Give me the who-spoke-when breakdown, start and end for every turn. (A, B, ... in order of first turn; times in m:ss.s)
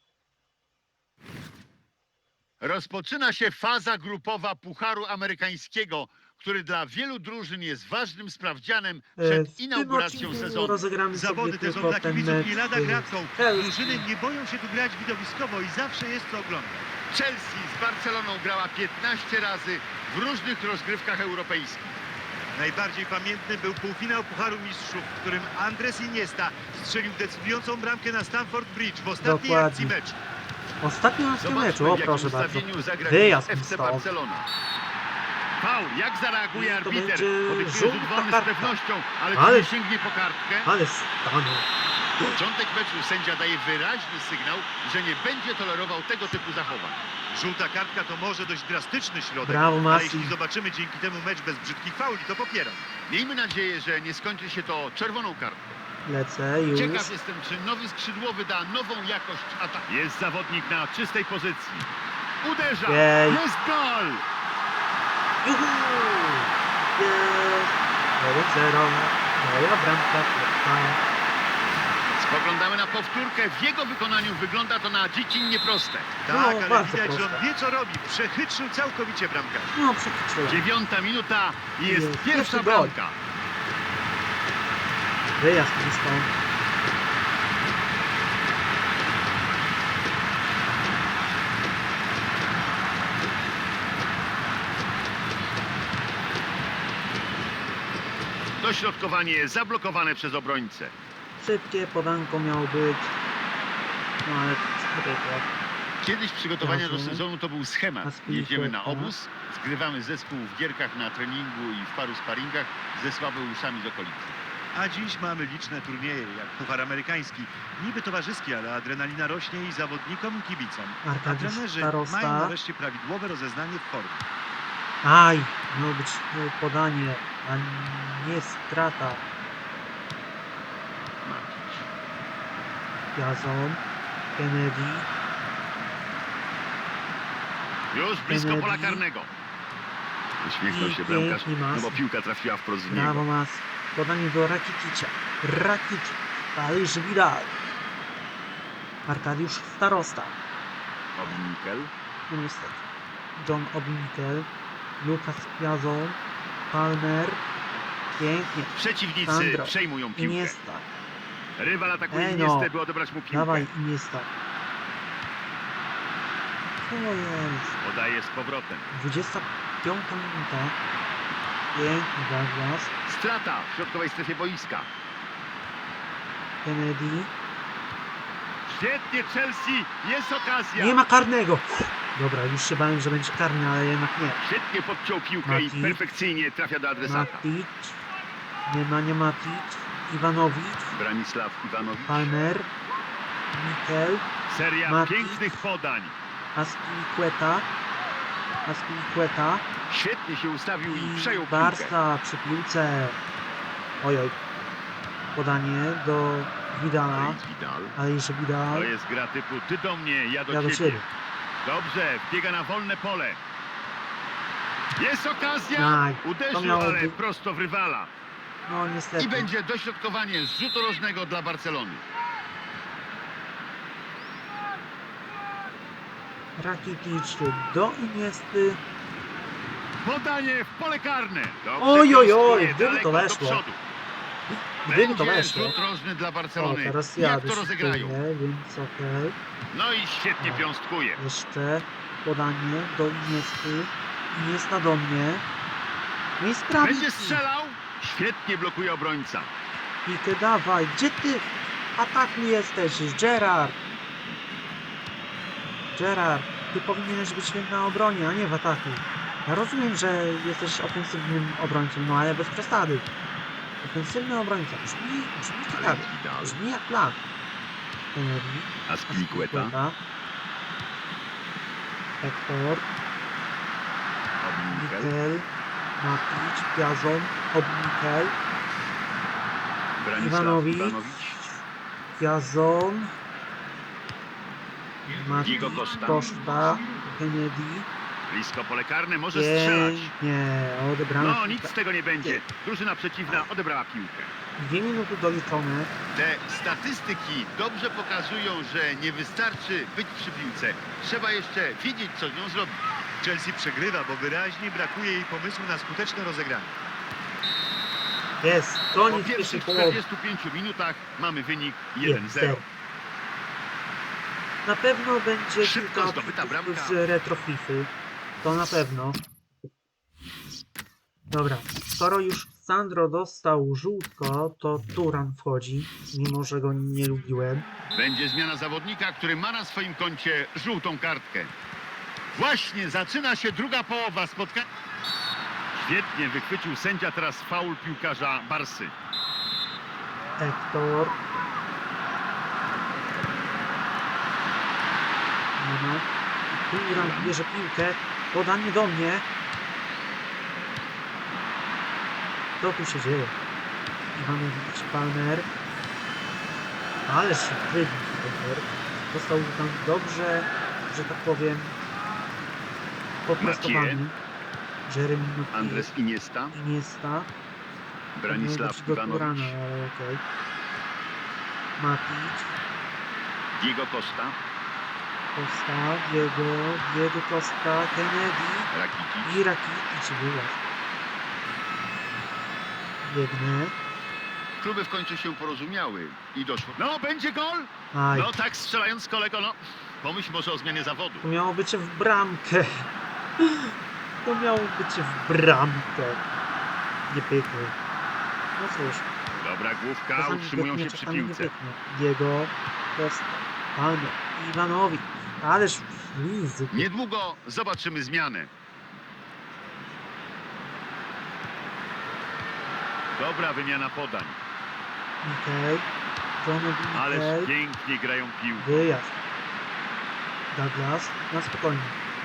0:02.6-0:10.8 A
0:09.2-0:14.0 B
0:11.1-0:16.9 C
0:17.1-0:22.0 A
0:22.5-0:30.2 C
0:29.2-0:29.9 B
0:30.8-0:34.1 B
0:31.4-0:34.5 A
0:35.6-0:40.7 A
0:36.5-0:38.8 B
0:39.3-0:39.7 B
0:40.6-0:41.7 B
0:42.3-0:47.0 A
0:47.3-0:52.9 C
0:49.4-0:50.3 B
0:53.1-0:55.8 A
0:56.0-0:57.1 B
0:56.7-1:01.9 A
1:02.4-1:04.2 A
1:02.8-1:03.4 B
1:05.4-1:11.0 B
1:12.1-1:16.2 A
1:16.2-1:19.7 C
1:16.3-1:17.4 B
1:19.7-1:20.6 B
1:20.4-1:23.2 A
1:21.8-1:22.9 B
1:25.4-1:26.3 B
1:38.6-1:40.9 A
1:41.4-1:43.1 B
1:44.2-1:45.5 B
1:46.0-1:54.4 A
1:46.6-1:47.2 B
1:48.0-1:49.1 B
1:54.7-2:04.2 C
2:01.0-2:02.5 B
2:05.0-2:09.2 B
2:11.2-2:11.9 A
2:13.1-2:13.8 B
2:14.4-2:15.1 B
2:17.9-2:19.3 A
2:18.2-2:19.0 B
2:20.4-2:23.2 A
2:20.6-2:22.0 B
2:22.9-2:27.5 B
2:29.0-2:30.4 B
2:31.1-2:31.9 A
2:32.3-2:32.8 B
2:33.4-2:36.2 B
2:36.7-2:37.4 B
2:38.2-2:40.9 B
2:38.7-2:40.5 A
2:41.6-2:43.7 A
2:42.1-2:42.7 B
2:43.3-2:44.3 B
2:46.8-2:47.8 B
2:47.8-2:48.9 A
2:48.9-2:50.8 B
2:51.7-2:52.9 B
2:53.0-2:54.9 A
2:56.6-2:57.3 B
2:58.6-3:01.0 A
3:00.8-3:04.4 B
3:04.4-3:07.4 A
3:05.4-3:06.1 B
3:07.0-3:08.0 B
3:08.6-3:11.0 B
3:10.9-3:12.3 A
3:12.1-3:12.7 B
3:13.5-3:14.2 B
3:14.5-3:16.1 A
3:14.8-3:15.6 B
3:16.5-3:17.7 B
3:18.6-3:19.6 B
3:19.9-3:21.9 A
3:20.8-3:23.2 B
3:24.0-3:24.4 B
3:25.3-3:27.4 B
3:27.1-3:28.0 A
3:27.9-3:28.9 B
3:28.7-3:31.0 A
3:30.5-3:31.0 B
3:31.6-3:33.4 A
3:35.0-3:38.1 A
3:35.7-3:37.2 B
3:38.6-3:39.5 B
3:39.2-3:42.0 A
3:46.6-3:48.8 B
3:50.0-3:53.8 A
3:51.8-3:53.6 B
3:54.8-3:55.8 B
3:54.8-3:58.2 A
3:56.6-3:59.4 B
3:59.7-4:01.2 A
4:00.4-4:00.6 B
4:01.2-4:05.4 B
4:06.4-4:07.4 B
4:06.8-4:09.5 A
4:10.0-4:13.8 B
4:15.9-4:23.1 B
4:23.8-4:27.2 B
4:25.7-4:26.6 A
4:28.1-4:30.0 B
4:28.9-4:29.7 A
4:32.2-4:32.9 B
4:34.4-4:35.1 A
4:34.7-4:38.3 B
4:40.0-4:41.4 A
4:40.2-4:41.6 B
4:42.2-4:43.1 B
4:45.1-4:47.9 B
4:45.4-4:46.2 A
4:48.3-4:50.1 A
4:49.3-4:52.4 B
4:51.2-4:54.3 A
4:54.6-4:55.9 B
4:56.1-5:02.8 A
5:03.2-5:06.7 C
5:08.4-5:10.0 B
5:09.1-5:12.6 A
5:12.0-5:12.6 B
5:14.6-5:17.9 B
5:15.6-5:17.0 A
5:18.4-5:19.2 B
5:21.3-5:27.7 B
5:27.9-5:31.5 A
5:32.3-5:34.7 A
5:35.8-5:38.9 A
5:40.4-5:41.2 B
5:45.6-5:49.2 B
5:46.9-5:47.4 A
5:52.6-5:53.3 B
5:54.1-5:55.5 B
5:57.0-6:01.8 B
6:03.2-6:04.2 B
6:03.4-6:04.0 A
6:04.8-6:05.9 B
6:05.5-6:06.6 A
6:06.5-6:07.3 B
6:08.1-6:09.6 A
6:08.3-6:10.2 B
6:11.8-6:12.6 B
6:13.5-6:14.4 A
6:15.3-6:18.7 B
6:18.7-6:19.3 A
6:19.2-6:20.6 B
6:23.0-6:23.8 B
6:24.6-6:31.3 A
6:27.9-6:28.3 B
6:31.2-6:32.9 B
6:33.4-6:36.2 B
6:37.1-6:37.8 B
6:38.6-6:39.1 B
6:39.4-6:41.5 A
6:40.2-6:46.9 B
6:46.7-6:48.5 A
6:53.1-6:54.4 A
6:55.2-6:55.9 B
6:56.4-6:57.5 B
6:56.9-6:58.9 A
6:58.6-6:59.2 B
7:00.5-7:02.0 B